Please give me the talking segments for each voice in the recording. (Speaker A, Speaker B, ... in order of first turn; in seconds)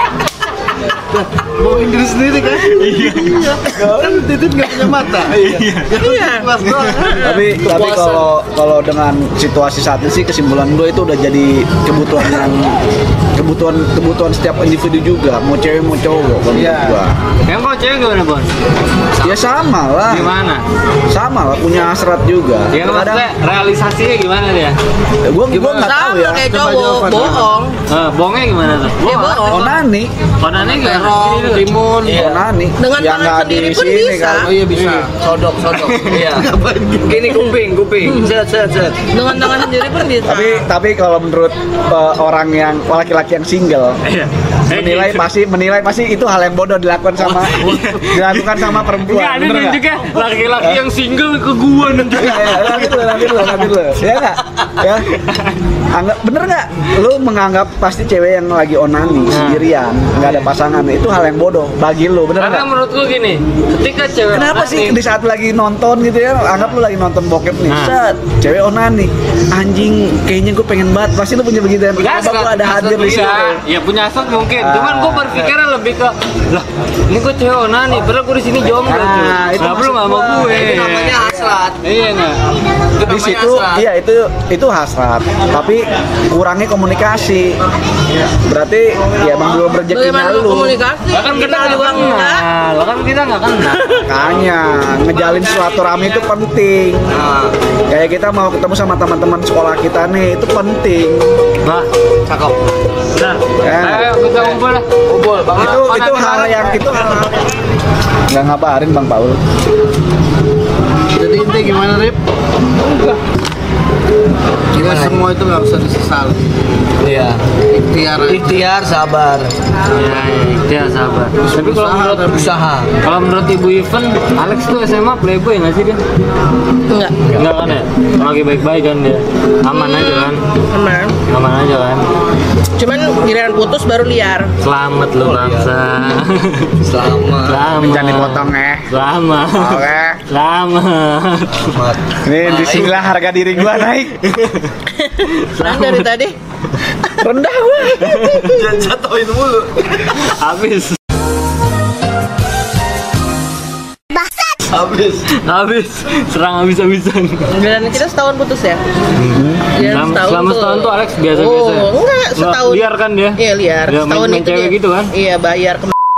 Speaker A: 1.0-8.2, 16.5-17.0, 25.5-25.8, 26.5-27.5, 30.5-32.2, 34.4-35.1, 35.9-37.4, 111.1-112.2, 114.7-116.4, 117.7-118.7, 121.4-122.5
Speaker B: 2.6-3.5, 5.3-5.9, 17.4-18.5, 20.1-20.6, 22.7-24.8, 27.9-29.8, 30.4-31.7, 34.7-35.1, 44.0-45.3, 47.2-53.6, 59.3-59.7, 60.2-60.5, 62.4-65.0, 67.7-67.9, 72.0-81.2, 81.8-82.4, 91.1-94.0, 103.1-104.8, 105.6-106.8, 119.9-122.3, 123.0-126.0, 127.3-130.4, 131.3-132.0, 134.6-136.7, 137.5-141.8, 144.2-144.7, 145.5-146.1, 150.2-151.0, 155.3-157.4, 159.2-165.1
Speaker C: 6.0-7.4, 25.8-27.7, 29.0-29.7, 32.8-34.5, 39.1-40.6, 89.9-92.4, 126.9-127.2, 129.6-131.2, 132.8-134.5, 144.9-146.3, 157.5-158.8, 159.8-165.9
Speaker D: 7.2-12.7, 13.3-17.2, 19.2-20.3, 21.1-23.3, 25.2-26.5, 29.5-30.1, 32.1-34.5, 40.2-44.0, 44.7-49.8, 52.1-55.1, 55.9-62.7, 64.3-73.6, 74.6-75.5, 78.8-80.6, 83.0-87.6, 88.5-90.8, 94.0-97.2, 97.9-101.3, 103.6-104.1, 105.5-107.5, 108.3-109.4, 137.8-139.0, 139.5-140.2, 142.2-144.2, 147.2-148.5, 159.3-159.7
Speaker E: 19.2-19.5, 32.0-32.4, 35.2-36.5, 37.0-39.0, 80.3-81.8, 83.0-83.8, 97.1-97.5, 102.2-102.6, 105.1-105.9, 114.7-115.2, 117.0-117.4, 118.2-119.5, 122.3-122.9, 135.2-135.7, 136.8-137.8, 141.5-143.0, 148.4-150.1, 154.7-155.3